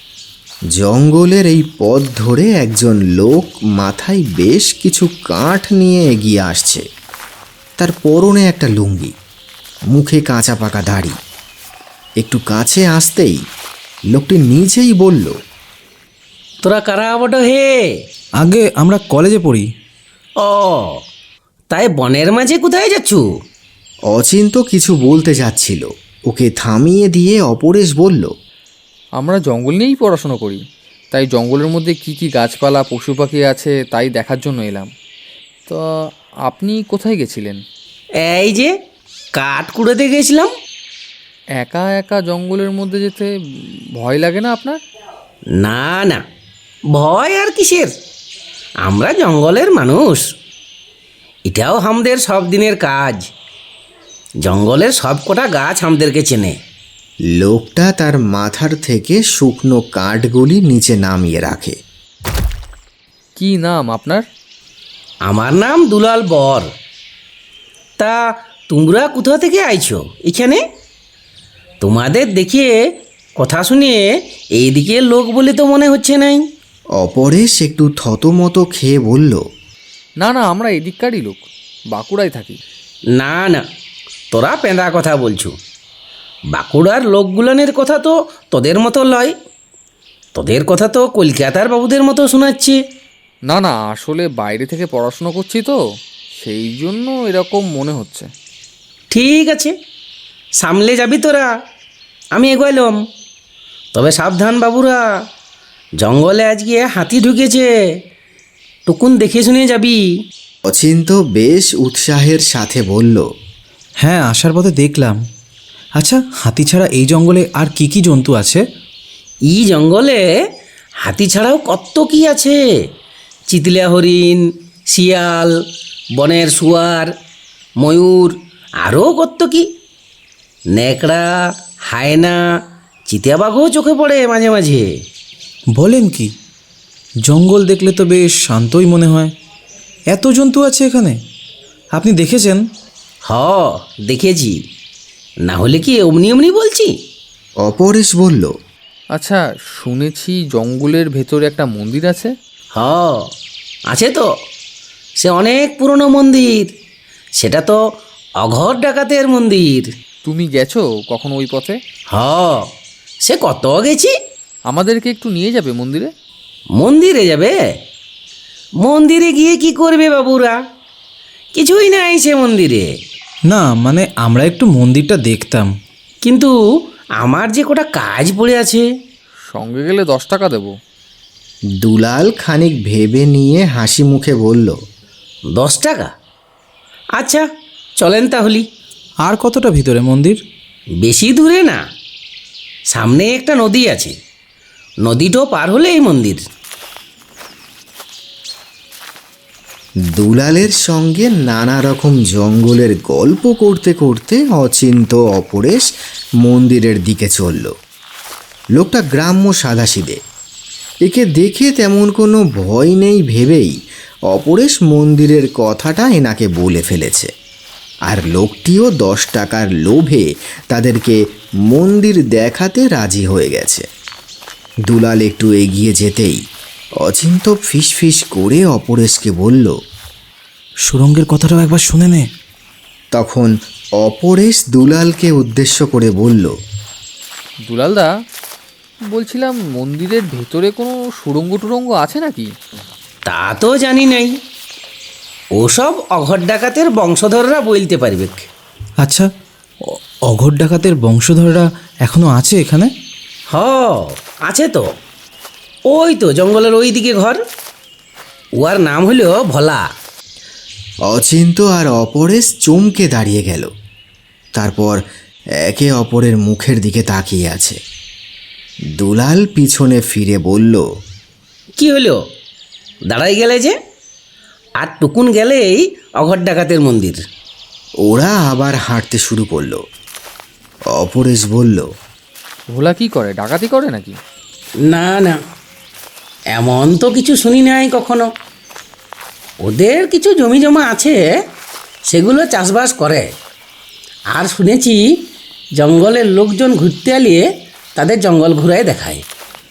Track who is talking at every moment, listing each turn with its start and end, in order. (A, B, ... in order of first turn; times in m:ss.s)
0:00.7-0:06.8 A
0:07.8-0:09.1 A
0:09.9-0:11.2 A
0:12.2-0:13.4 A
0:14.1-0:15.3 A
0:16.6-0:18.0 B
0:18.4-0:19.6 C
0:20.4-0:21.0 B
0:21.7-0:23.2 B
0:24.1-0:28.3 A
0:29.2-0:34.9 D
0:36.4-0:37.6 D
0:38.2-0:38.7 B
0:39.3-0:40.5 B
0:41.6-0:44.8 D
0:45.6-0:46.2 B
0:46.9-0:47.9 B
0:48.8-0:50.3 B
0:51.4-0:53.3 B
0:54.4-0:56.6 B
0:57.3-1:01.8 A
1:03.4-1:04.2 D
1:05.2-1:06.7 B
1:08.0-1:10.6 B
1:11.8-1:16.4 B
1:17.0-1:19.4 A
1:20.2-1:22.6 D
1:23.1-1:23.6 B
1:24.3-1:25.5 B
1:26.5-1:29.3 B
1:30.4-1:32.8 B
1:33.5-1:35.8 D
1:36.4-1:38.3 D
1:39.1-1:39.7 B
1:40.6-1:41.5 B
1:42.3-1:43.0 B
1:43.9-1:45.1 B
1:46.0-1:47.7 B
1:48.9-1:50.1 B
1:50.6-1:53.3 A
1:54.0-1:55.2 C
1:56.0-1:58.6 C
1:59.5-2:00.3 B
2:01.0-2:02.6 B
2:03.5-2:05.6 B
2:06.2-2:07.1 B
2:07.8-2:09.7 B
2:10.7-2:14.9 B
2:15.7-2:16.3 C
2:17.2-2:19.3 C
2:20.1-2:21.2 C
2:21.9-2:22.6 C
2:23.2-2:24.6 B
2:25.4-2:27.0 B
2:27.6-2:28.5 A
2:29.1-2:32.3 D
2:32.7-2:33.3 B
2:33.9-2:34.3 B
2:35.2-2:36.7 B
2:37.4-2:37.8 B
2:38.4-2:39.9 B
2:40.2-2:41.8 D
2:42.1-2:42.7 B
2:43.2-2:44.1 B
2:44.7-2:46.1 D
2:46.8-2:47.6 B
2:48.8-2:50.6 B
2:51.5-2:52.9 B
2:53.5-2:55.7 C
2:56.2-2:56.5 B
2:57.2-2:58.8 B
2:59.5-3:00.7 D
3:01.8-3:04.8 A
3:05.5-3:06.1 B
3:07.2-3:07.4 B
3:08.0-3:08.6 B
3:09.2-3:10.4 C
3:11.0-3:11.8 B
3:12.9-3:14.1 B
3:15.0-3:16.4 B
3:20.1-3:25.8 A
3:26.4-3:27.7 A
3:28.8-3:30.2 A
3:31.0-3:33.8 A
3:34.3-3:37.3 A
3:38.1-3:43.8 A
3:44.9-3:46.4 A
3:47.0-3:49.7 A
3:50.9-3:52.3 C
3:53.1-3:56.5 A
3:57.6-3:58.1 D
3:59.1-4:02.5 D
4:03.3-4:04.3 B
4:05.6-4:08.4 B
4:09.0-4:09.3 C
4:09.9-4:12.9 C
4:13.5-4:14.9 B
4:15.9-4:17.4 B
4:18.6-4:19.8 B
4:21.1-4:23.7 A
4:24.6-4:25.0 A
4:25.6-4:27.8 A
4:29.0-4:30.8 A
4:31.8-4:32.2 B
4:33.1-4:33.7 B
4:34.8-4:37.2 B
4:38.0-4:39.8 A
4:40.9-4:41.9 A
4:42.7-4:44.2 D
4:44.8-4:45.4 B
4:46.5-4:48.3 B
4:49.6-4:51.4 B
4:52.1-4:53.3 B
4:54.3-4:55.1 B
4:55.8-4:59.2 B